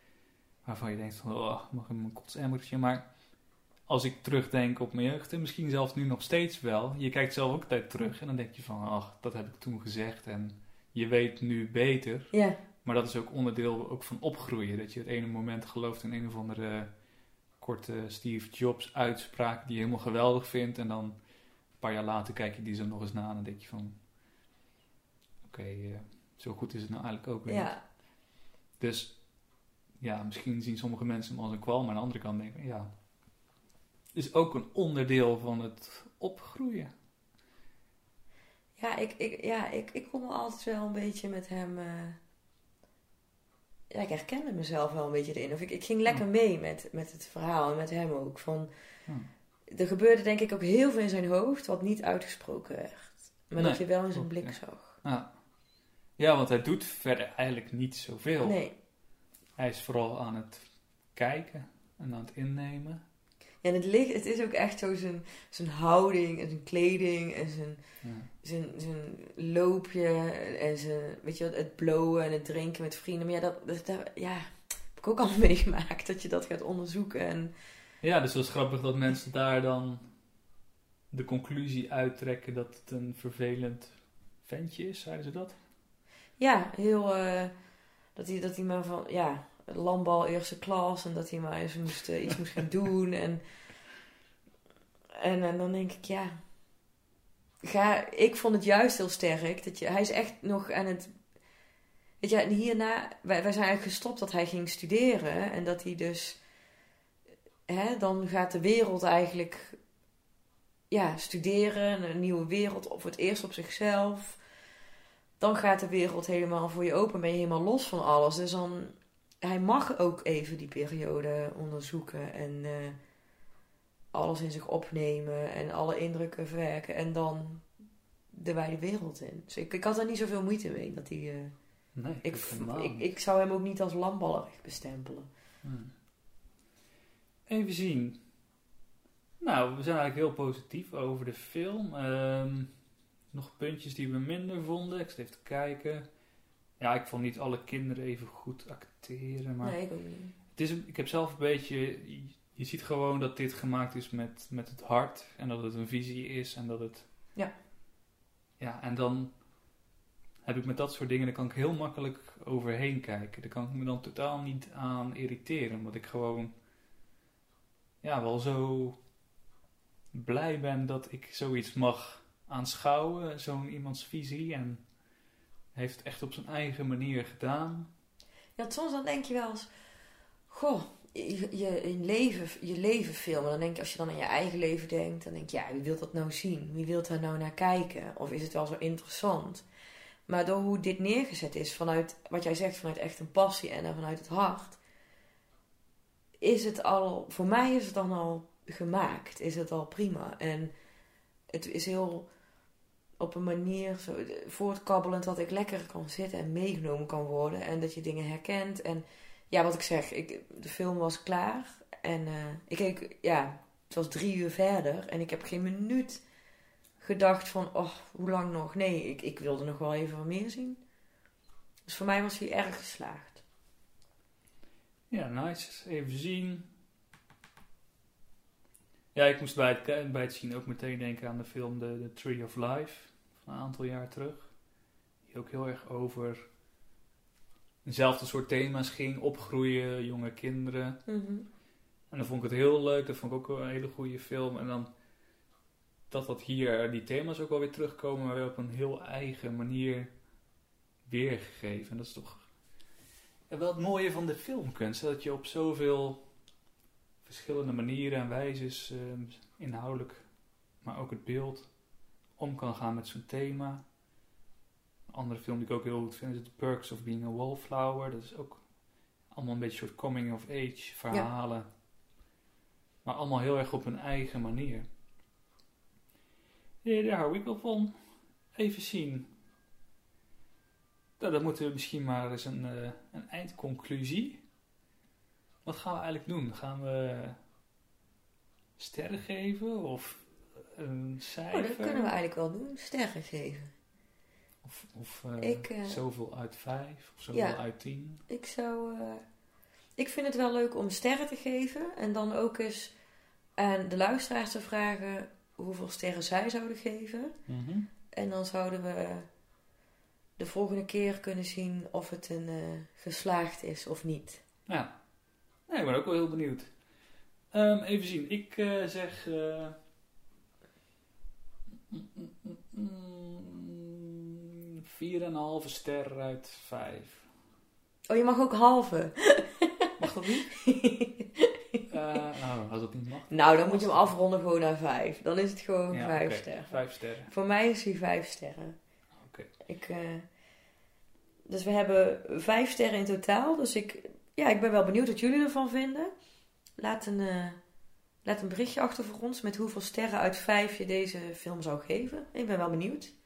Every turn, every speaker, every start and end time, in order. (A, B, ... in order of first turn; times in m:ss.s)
0:00.6-0:03.1 A
0:03.9-0:24.0 A
0:12.3-0:12.6 B
0:25.4-0:27.8 A
0:27.5-0:27.8 B
0:28.8-0:29.4 A
0:30.0-0:32.9 A
0:34.1-0:36.9 A
0:38.8-0:42.2 B
0:43.9-0:48.7 B
0:49.7-0:55.0 B
0:53.6-0:55.4 A
0:56.2-0:58.6 A
0:58.4-0:58.7 B
0:59.6-1:03.0 A
1:03.6-1:17.5 B
1:08.0-1:08.3 A
1:18.0-1:20.2 A
1:21.1-1:25.6 A
1:26.4-1:27.5 B
1:28.2-1:33.4 B
1:35.2-1:36.4 B
1:37.6-1:41.2 B
1:42.2-1:46.4 B
1:47.7-1:49.8 B
1:50.9-1:54.4 B
1:55.4-2:03.0 B
2:04.1-2:07.7 B
2:08.3-2:11.6 B
2:12.0-2:13.1 A
2:12.2-2:15.3 B
2:15.6-2:15.9 A
2:17.5-2:18.2 A
2:19.4-2:22.7 A
2:23.3-2:26.1 A
2:26.8-2:29.8 A
2:29.6-2:30.3 B
2:30.5-2:37.1 A
2:38.6-2:39.4 A
2:40.4-2:46.5 A
2:48.0-2:49.0 A
2:50.1-2:54.8 A
2:55.7-2:57.9 A
2:58.6-2:59.7 B
3:00.5-3:09.6 B
3:10.3-3:14.8 B
3:16.4-3:20.7 B
3:21.5-3:22.3 B
3:23.2-3:36.2 B
3:37.0-3:40.8 B
3:41.9-3:43.4 B
3:45.1-3:46.7 A
3:49.1-3:54.6 A
3:55.3-3:56.4 A
3:57.8-4:01.0 A
4:01.1-4:01.5 B
4:02.1-4:04.9 A
4:06.1-4:10.1 A
4:11.0-4:12.5 A
4:13.5-4:16.3 A
4:17.2-4:21.7 A
4:22.4-4:23.8 A
4:25.1-4:28.6 A
4:29.3-4:31.7 A
4:33.0-4:34.9 A
4:36.8-4:37.9 A
4:38.5-4:39.3 A
4:41.2-4:44.4 A
4:45.6-4:47.4 A
4:48.8-4:52.1 A
4:51.5-4:53.7 B
4:54.6-4:58.2 A
4:55.4-4:56.0 B
4:57.3-4:57.6 B
4:58.3-4:59.2 B
5:00.0-5:02.9 B
5:03.6-5:07.4 B
5:07.5-5:07.9 A
5:08.1-5:09.3 B
5:10.4-5:14.4 B
5:14.7-5:14.9 A
5:15.7-5:16.8 A
5:17.5-5:19.8 A
5:21.9-5:27.3 A
5:28.1-5:29.9 B
5:30.0-5:30.6 A
5:30.6-5:31.8 B
5:31.9-5:34.1 A
5:33.3-5:38.8 B
5:35.9-5:37.3 A
5:39.2-5:39.5 A
5:39.6-5:40.3 B
5:41.5-5:46.1 B
5:46.8-5:47.6 B
5:48.2-5:53.1 B